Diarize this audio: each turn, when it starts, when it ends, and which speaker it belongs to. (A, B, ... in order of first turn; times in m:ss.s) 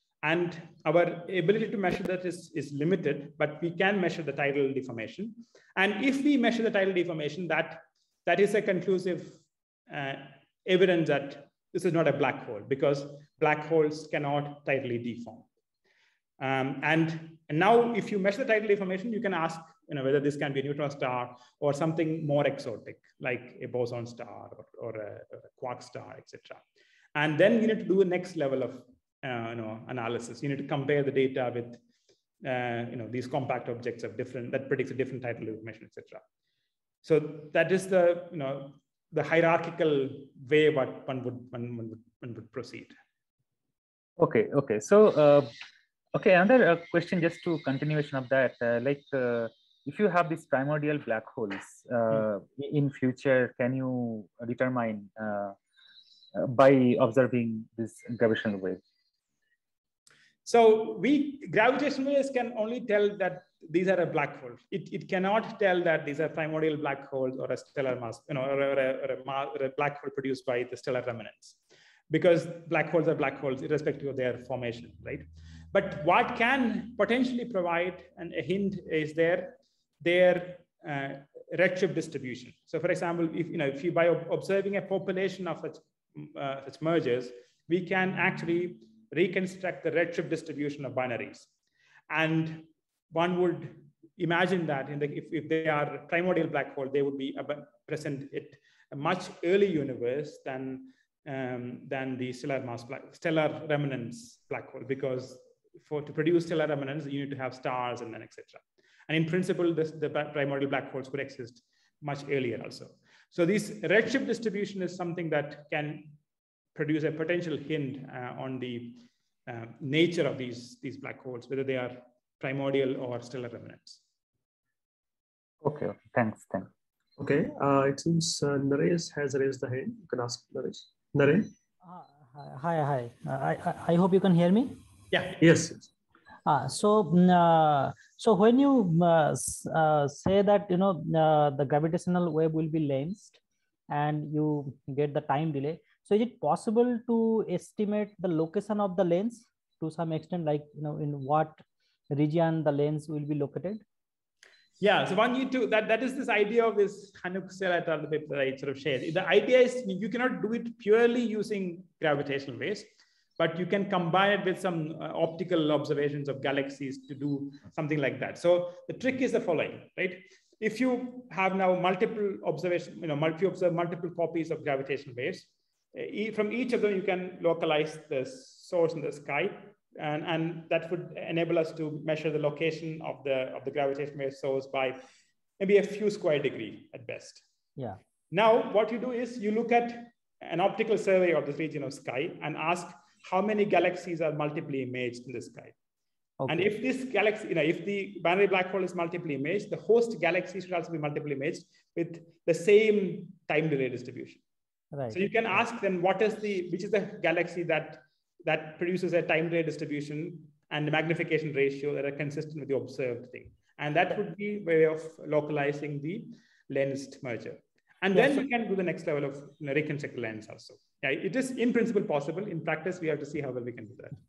0:00.2-0:15.5 A
0:16.4-0:26.6 A
0:27.1-0:31.8 A
0:32.4-0:36.2 A
0:37.0-0:42.9 A
0:44.2-0:45.5 B
0:46.1-0:55.6 B
0:56.3-0:58.8 B
1:00.4-1:11.6 A
1:12.1-1:31.5 A
1:32.1-1:56.2 A
1:56.7-2:04.0 A
2:05.6-2:06.7 B
2:07.2-2:11.5 C
2:11.8-2:14.8 D
2:15.1-2:15.4 A
2:15.4-2:15.9 C
2:16.4-2:33.8 D
2:34.8-3:05.0 A
3:05.6-3:07.4 A
3:08.3-3:15.7 A
3:16.4-3:16.7 D
3:16.5-3:24.4 A
3:24.9-3:25.2 D
3:25.1-3:44.2 A
3:38.1-3:38.4 D